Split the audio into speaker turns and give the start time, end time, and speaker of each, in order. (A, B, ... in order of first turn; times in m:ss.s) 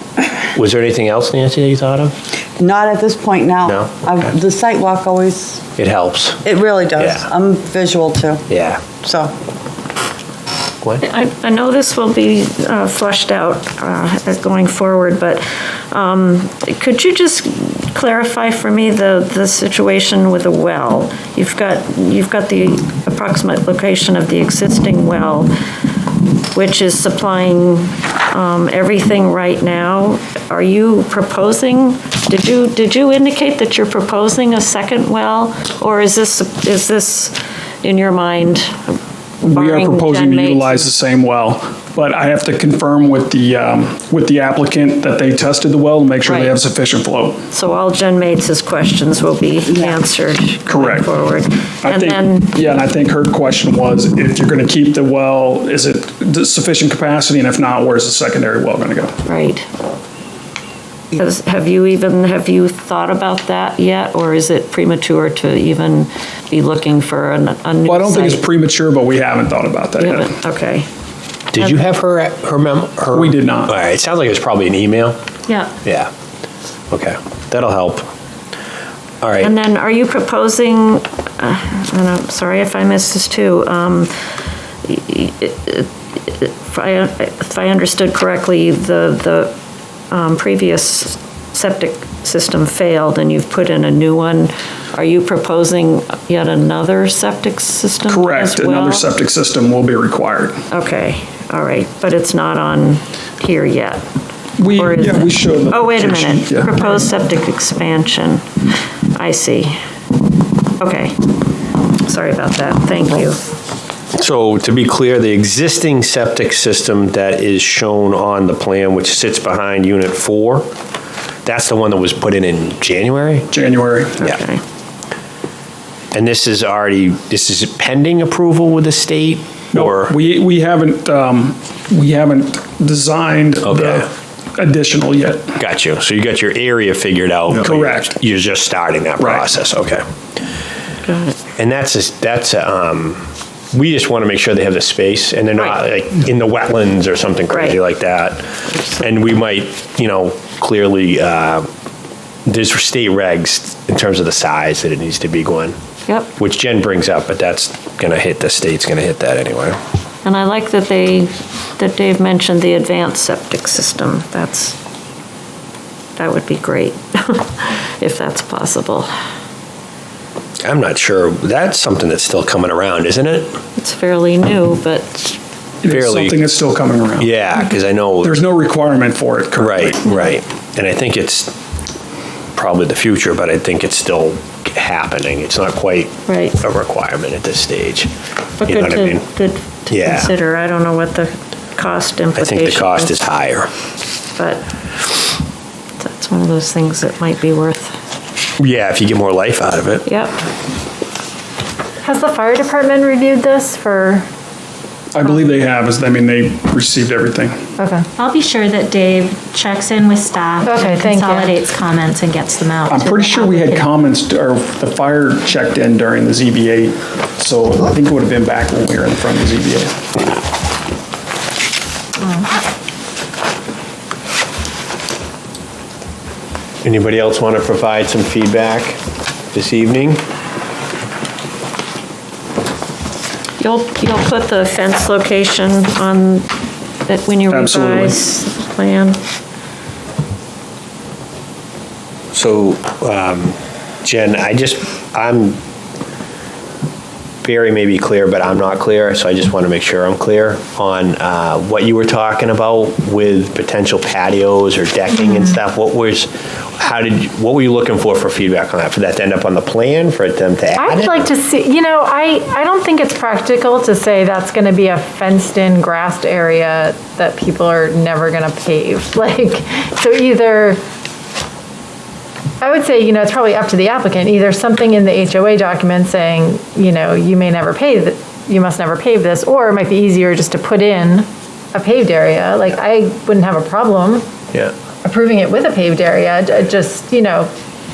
0:00.5-0:02.1 A
0:02.6-0:05.6 B
0:03.6-0:04.3 A
0:05.8-0:06.4 A
0:06.4-0:09.3 B
0:07.0-0:07.3 A
0:08.5-0:08.8 A
0:11.0-0:25.5 C
0:26.5-0:39.0 C
0:39.4-0:47.5 D
0:39.5-0:40.9 C
0:46.2-0:46.6 C
0:47.5-0:52.5 C
0:49.6-0:50.0 B
0:50.7-0:51.1 D
0:51.8-0:59.2 D
0:59.2-0:59.6 C
1:01.1-1:08.4 C
1:07.8-1:10.4 D
1:10.0-1:10.9 C
1:11.5-1:15.2 A
1:11.6-1:11.8 C
1:13.1-1:13.7 D
1:15.8-1:16.1 A
1:16.9-1:18.1 A
1:19.2-1:19.5 A
1:19.4-1:24.1 C
1:24.8-1:29.5 C
1:30.1-1:39.0 C
1:38.1-1:40.6 D
1:40.7-1:44.0 C
1:44.6-1:46.8 D
1:44.7-1:48.4 C
1:49.1-1:49.8 C
1:50.8-1:51.2 C
1:52.0-1:53.4 C
1:54.2-2:00.7 A
2:01.4-2:03.5 A
2:03.5-2:04.4 D
2:04.2-2:04.6 C
2:06.1-2:10.1 A
2:09.7-2:15.6 D
2:13.6-2:14.1 A
2:15.6-2:20.0 A
2:17.5-2:18.2 D
2:19.2-2:19.5 D
2:21.0-2:21.4 C
2:21.6-2:28.4 A
2:27.5-2:27.8 C
2:28.8-2:29.0 C
2:29.0-2:31.7 A
2:32.4-2:35.8 A
2:36.4-2:39.8 A
2:40.2-2:44.8 C
2:46.2-2:49.1 C
2:50.6-2:53.6 A
2:53.8-2:55.4 C
2:55.8-2:57.4 D
2:55.9-2:56.4 A
2:57.2-2:58.4 A
2:58.2-3:00.0 D
2:59.6-3:01.5 A
3:00.1-3:00.3 C
3:02.5-3:08.1 A
3:06.3-3:06.6 C
3:08.6-3:13.1 C
3:08.6-3:09.2 A
3:09.9-3:10.3 A
3:12.4-3:13.7 A
3:14.4-3:14.6 C
3:16.0-3:17.9 C
3:18.6-3:20.0 A
3:20.0-3:20.3 C
3:22.0-3:24.3 E
3:25.1-3:27.6 D
3:25.2-3:25.6 E
3:27.8-3:28.0 E
3:28.2-3:33.9 F
3:30.6-3:31.6 E
3:32.9-3:40.0 D
3:46.8-3:49.0 A
3:49.5-3:50.2 A
3:53.6-3:56.5 C
3:57.0-3:59.2 C
3:57.5-3:58.2 D
4:02.3-4:05.6 A
4:07.4-4:21.3 A
4:20.8-4:30.8 E
4:32.6-4:44.2 E
4:45.0-4:47.5 E